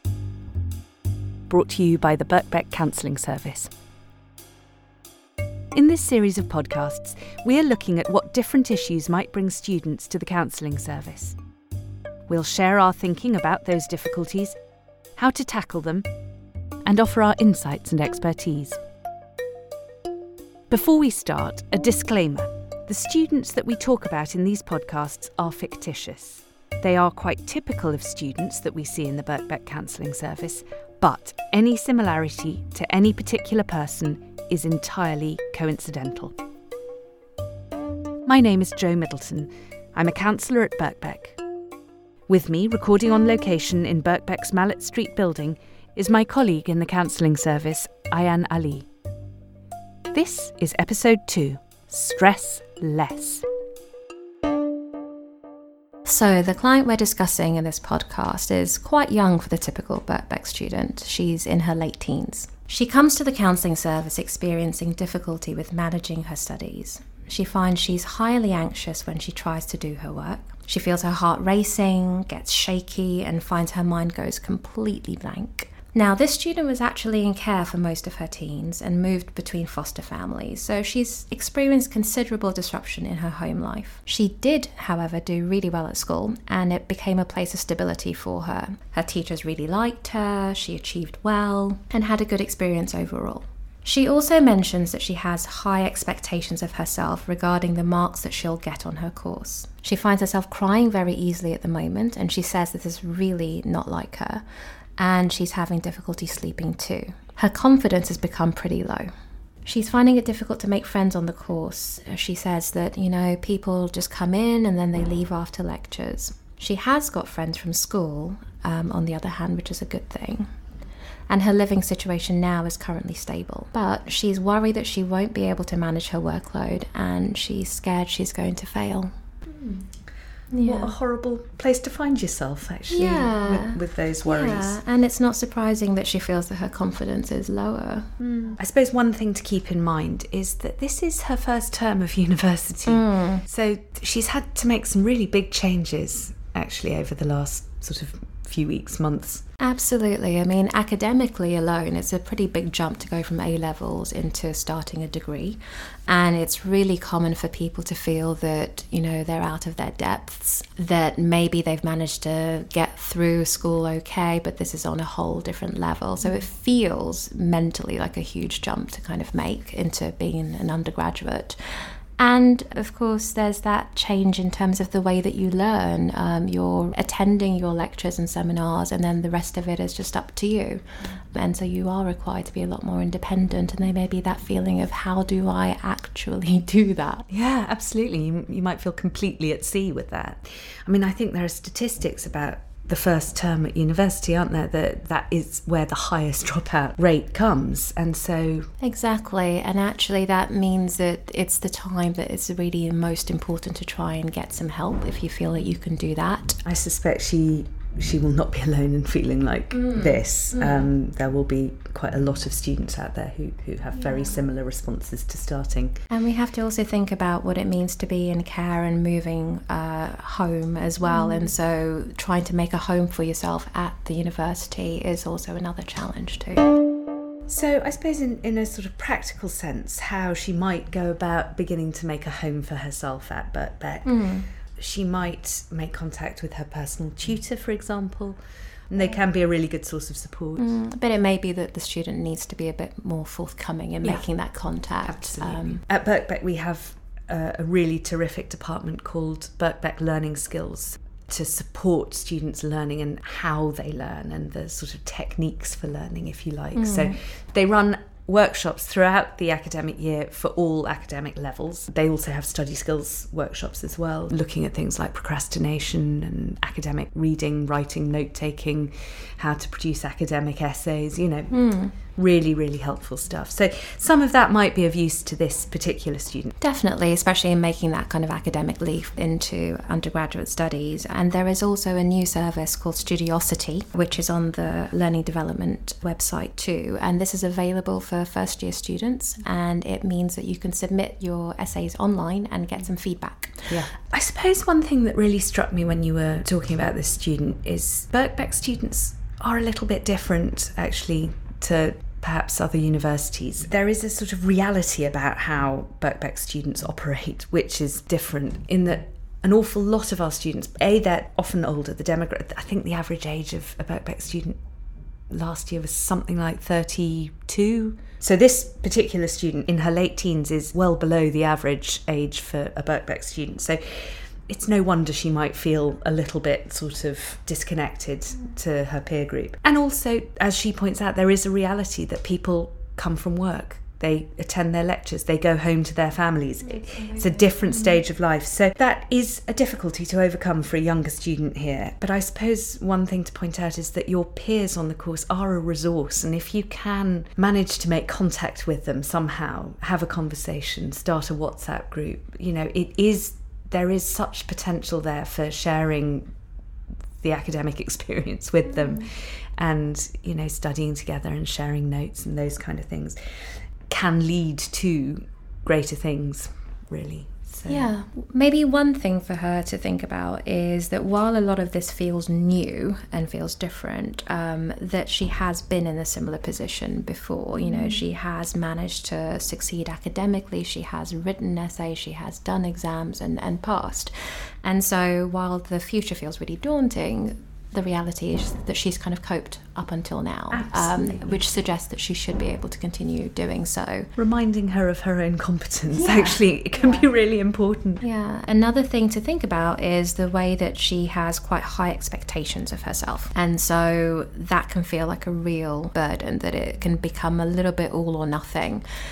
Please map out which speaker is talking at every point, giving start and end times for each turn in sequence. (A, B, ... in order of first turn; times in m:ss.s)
0:01.5-0:03.7 A
0:05.7-0:11.4 A
0:12.3-0:14.6 A
0:15.2-0:16.1 A
0:16.8-0:18.8 A
0:20.7-0:36.3 A
0:38.2-0:41.4 A
0:42.3-0:48.9 A
0:50.1-0:53.4 A
0:56.0-1:44.4 B
1:45.0-1:49.1 B
1:49.6-2:00.5 B
2:01.3-2:09.1 B
2:09.5-2:09.9 A
2:10.5-2:10.9 B
2:10.5-2:14.8 A
2:12.9-2:18.1 B
2:18.2-2:29.4 A
2:22.9-2:23.4 B
2:29.6-3:07.2 B
3:07.3-3:18.7 A
3:18.8-3:26.6 B
3:26.6-3:36.0 A
3:30.5-3:30.8 B
3:36.1-3:46.6 B
3:41.0-3:41.5 A
3:47.5-3:58.4 A
3:54.0-3:54.5 B
3:58.9-4:00.7 A
4:00.6-4:05.8 B
4:05.0-4:36.5 A
4:16.7-4:17.2 B
4:31.5-4:31.9 B
4:36.6-4:53.8 B
4:53.7-5:14.6 A
5:15.3-5:56.3 A
5:36.8-5:38.0 B
5:57.2-6:03.2 A
5:58.7-5:59.0 B
6:03.9-6:07.9 A
6:07.6-6:34.1 B
6:17.7-6:18.0 A
6:30.5-6:31.4 A
6:34.2-6:38.0 A
6:35.9-6:37.0 B
6:38.0-6:48.8 B